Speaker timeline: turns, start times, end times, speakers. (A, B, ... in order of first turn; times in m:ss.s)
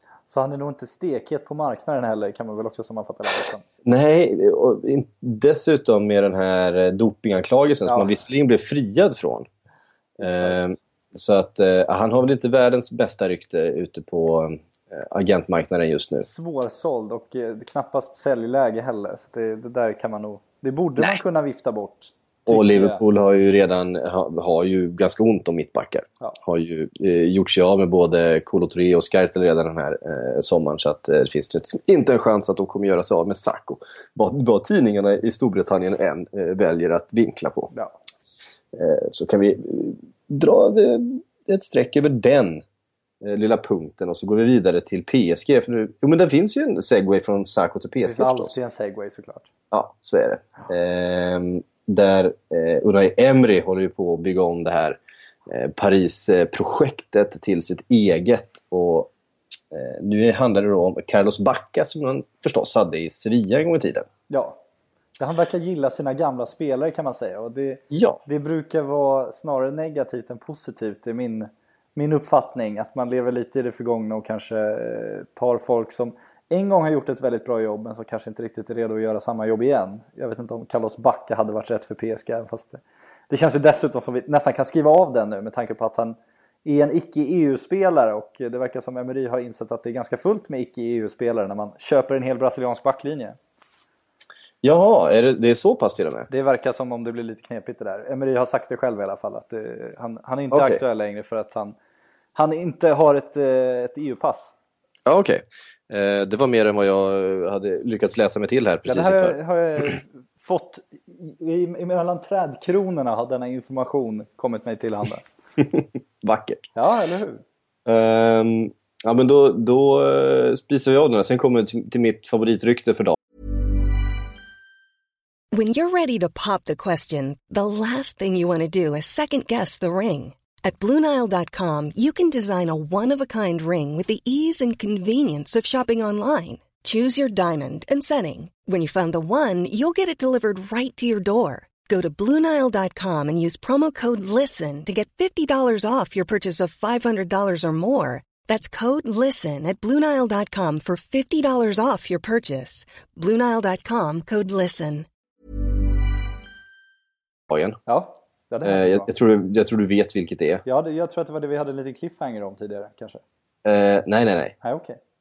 0:00.3-0:03.6 A
0:03.8-0:09.5 B
0:07.9-0:08.2 A
0:10.2-0:10.6 A
0:10.2-0:16.3 B
0:16.2-0:23.0 A
0:22.5-0:37.7 B
0:38.7-0:42.6 B
0:43.2-0:48.6 B
0:48.0-0:49.5 A
0:49.7-0:59.1 B
0:59.7-1:04.1 B
1:04.3-1:04.6 A
1:05.2-1:33.4 A
1:07.9-1:08.2 B
1:34.6-1:36.3 B
1:36.3-1:41.8 A
1:40.5-1:40.8 B
1:42.4-1:44.5 A
1:45.1-1:49.9 B
1:48.9-1:55.2 A
1:55.6-1:56.7 B
1:56.8-1:57.4 A
1:57.9-2:03.2 B
2:05.5-2:35.1 C
2:37.5-2:37.8 B
2:37.9-2:39.1 A
2:38.6-2:40.6 B
2:40.6-2:43.2 A
2:43.6-2:44.6 B
2:44.6-2:45.0 A